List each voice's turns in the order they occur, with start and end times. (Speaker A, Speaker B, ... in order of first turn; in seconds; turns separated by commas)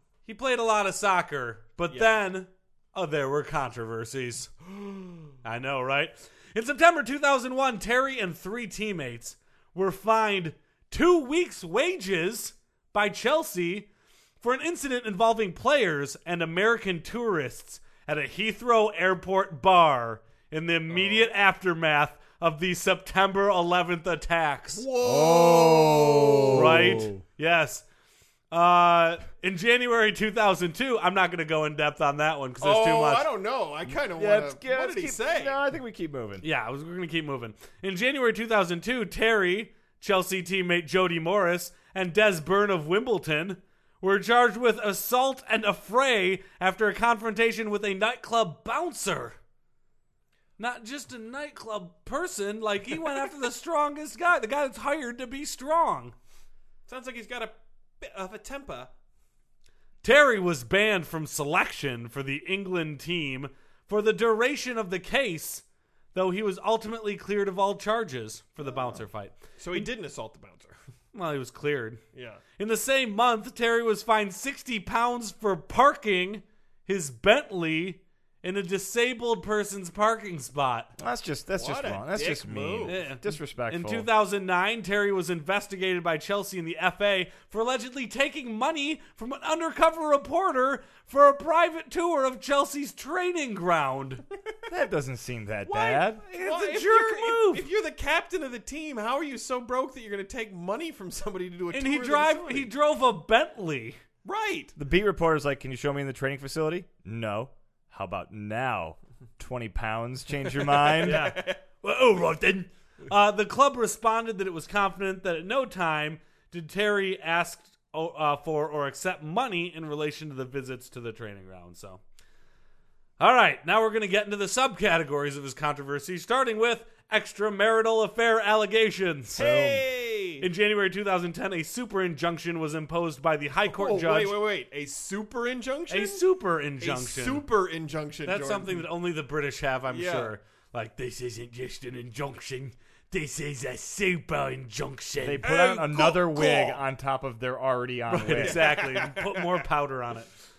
Speaker A: 0.3-4.5, Speaker B: 4.8-5.3, Speaker A: 5.4-13.9, Speaker A: 14.4-24.8, Speaker B: 20.9-21.3, Speaker B: 24.7-27.0, Speaker C: 25.0-27.2, Speaker A: 26.5-27.8, Speaker A: 28.5-33.3, Speaker B: 32.6-35.6, Speaker C: 33.9-36.5, Speaker A: 36.4-49.4, Speaker A: 50.6-56.1, Speaker B: 56.9-58.9, Speaker A: 60.0-69.9, Speaker B: 68.6-69.0, Speaker B: 69.6-70.8, Speaker A: 71.1-72.0, Speaker B: 72.1-72.4, Speaker A: 72.6-80.9, Speaker C: 81.0-84.1, Speaker B: 81.5-83.0, Speaker A: 82.8-94.2, Speaker C: 94.7-96.2, Speaker A: 95.7-97.7, Speaker B: 96.3-102.7, Speaker A: 101.7-104.0, Speaker B: 104.2-104.7, Speaker C: 104.8-111.3, Speaker B: 110.5-111.6, Speaker A: 111.0-122.0, Speaker A: 123.2-129.8, Speaker B: 129.4-130.5, Speaker A: 130.4-134.4, Speaker B: 133.6-136.2, Speaker A: 135.9-137.4, Speaker B: 136.8-138.9, Speaker A: 138.3-145.5, Speaker B: 139.9-140.3, Speaker C: 145.2-148.6, Speaker B: 145.4-146.8, Speaker A: 148.1-150.3, Speaker B: 148.4-149.6